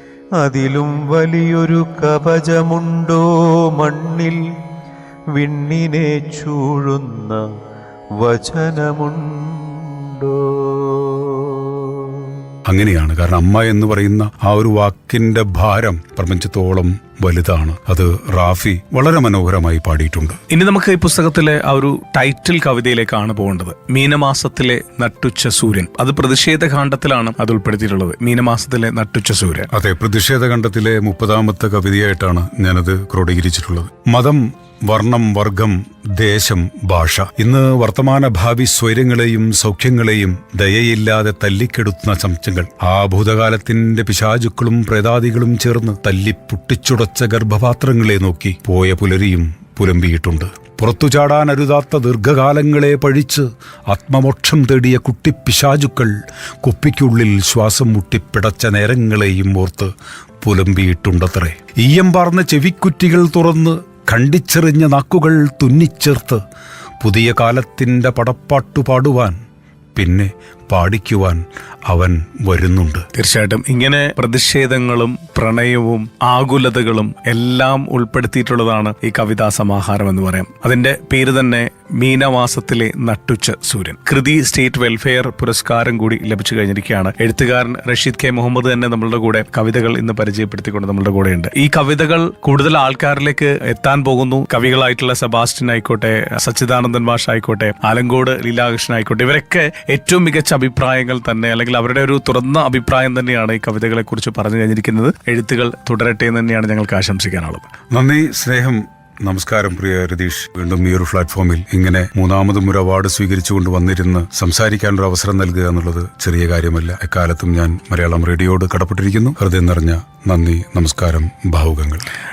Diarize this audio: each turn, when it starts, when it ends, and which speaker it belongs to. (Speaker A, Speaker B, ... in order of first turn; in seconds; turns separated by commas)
Speaker A: 0.4-4.4, Speaker A: 5.3-7.5, Speaker A: 8.2-12.3, Speaker B: 12.7-20.4, Speaker C: 20.5-29.7, Speaker B: 29.7-66.4, Speaker B: 67.0-69.4, Speaker B: 70.0-73.1, Speaker C: 73.1-107.7, Speaker B: 107.9-122.1